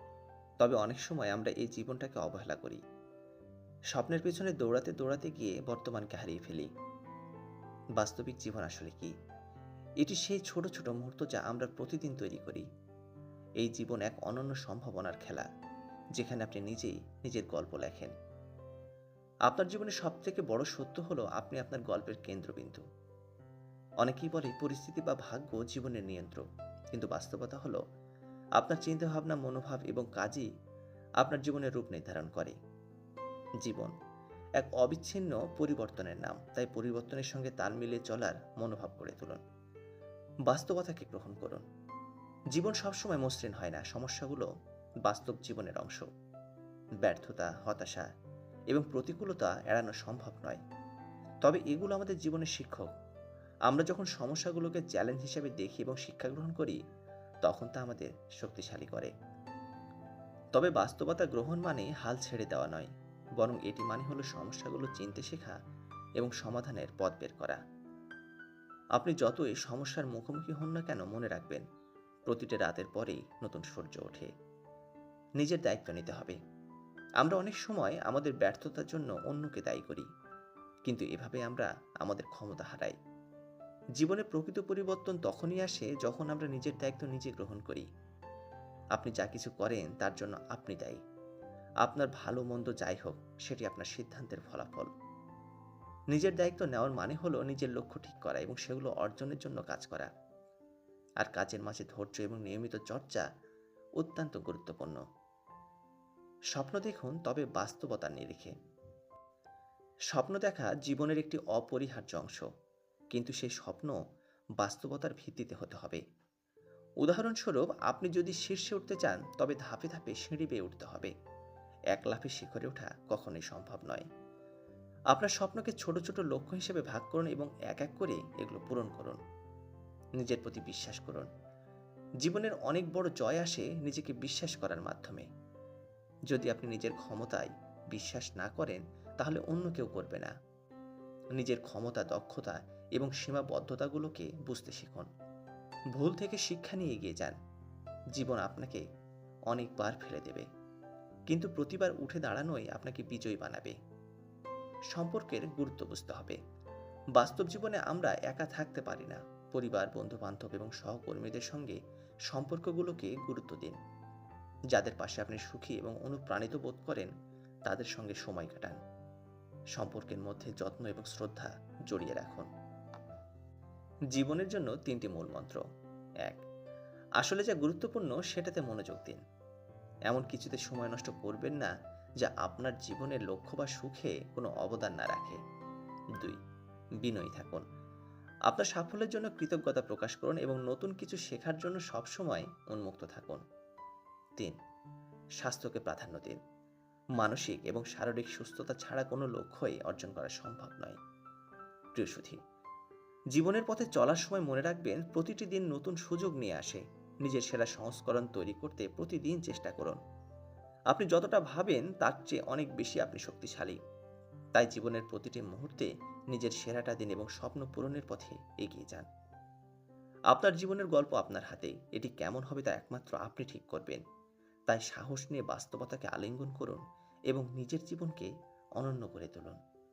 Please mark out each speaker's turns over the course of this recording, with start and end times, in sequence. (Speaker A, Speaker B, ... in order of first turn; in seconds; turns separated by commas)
Speaker A: 0.6-2.8, Speaker A: 3.9-6.7, Speaker A: 8.0-9.1, Speaker A: 10.0-12.7, Speaker A: 13.6-15.5, Speaker A: 16.2-18.1, Speaker A: 19.5-22.8, Speaker A: 24.0-26.4, Speaker A: 26.9-27.8, Speaker A: 28.6-30.5, Speaker A: 31.2-32.5, Speaker A: 33.6-33.9, Speaker A: 34.6-39.4, Speaker A: 40.5-41.6, Speaker A: 42.5-44.5, Speaker A: 45.0-46.1, Speaker A: 47.0-48.1, Speaker A: 48.7-50.6, Speaker A: 51.5-52.9, Speaker A: 53.7-56.8, Speaker A: 57.4-59.1, Speaker A: 60.5-65.6, Speaker A: 66.2-67.6, Speaker A: 69.0-71.6, Speaker A: 72.3-74.3, Speaker A: 75.4-76.4, Speaker A: 77.2-80.1, Speaker A: 80.9-83.0, Speaker A: 84.0-87.9, Speaker A: 89.0-91.0, Speaker A: 91.8-94.9, Speaker A: 96.1-100.1, Speaker A: 101.2-103.3, Speaker A: 104.0-105.0, Speaker A: 106.5-108.5, Speaker A: 110.1-112.5, Speaker A: 113.1-114.0, Speaker A: 114.6-116.0, Speaker A: 117.0-121.1, Speaker A: 121.9-124.0, Speaker A: 125.1-129.2, Speaker A: 130.2-131.3, Speaker A: 132.2-135.3, Speaker A: 136.3-140.3, Speaker A: 141.4-145.1, Speaker A: 145.9-147.4, Speaker A: 148.2-148.8, Speaker A: 149.5-150.5, Speaker A: 151.3-153.8, Speaker A: 154.9-156.4, Speaker A: 157.2-161.8, Speaker A: 162.3-163.8, Speaker A: 164.7-167.1, Speaker A: 167.7-168.8, Speaker A: 169.8-172.5, Speaker A: 174.1-175.6, Speaker A: 177.2-179.2, Speaker A: 180.1-185.4, Speaker A: 187.0-187.6, Speaker A: 188.5-193.4, Speaker A: 195.4-196.4, Speaker A: 197.2-201.0, Speaker A: 202.0-202.4, Speaker A: 203.3-210.0, Speaker A: 210.9-213.8, Speaker A: 214.6-219.1, Speaker A: 220.3-224.0, Speaker A: 224.7-229.6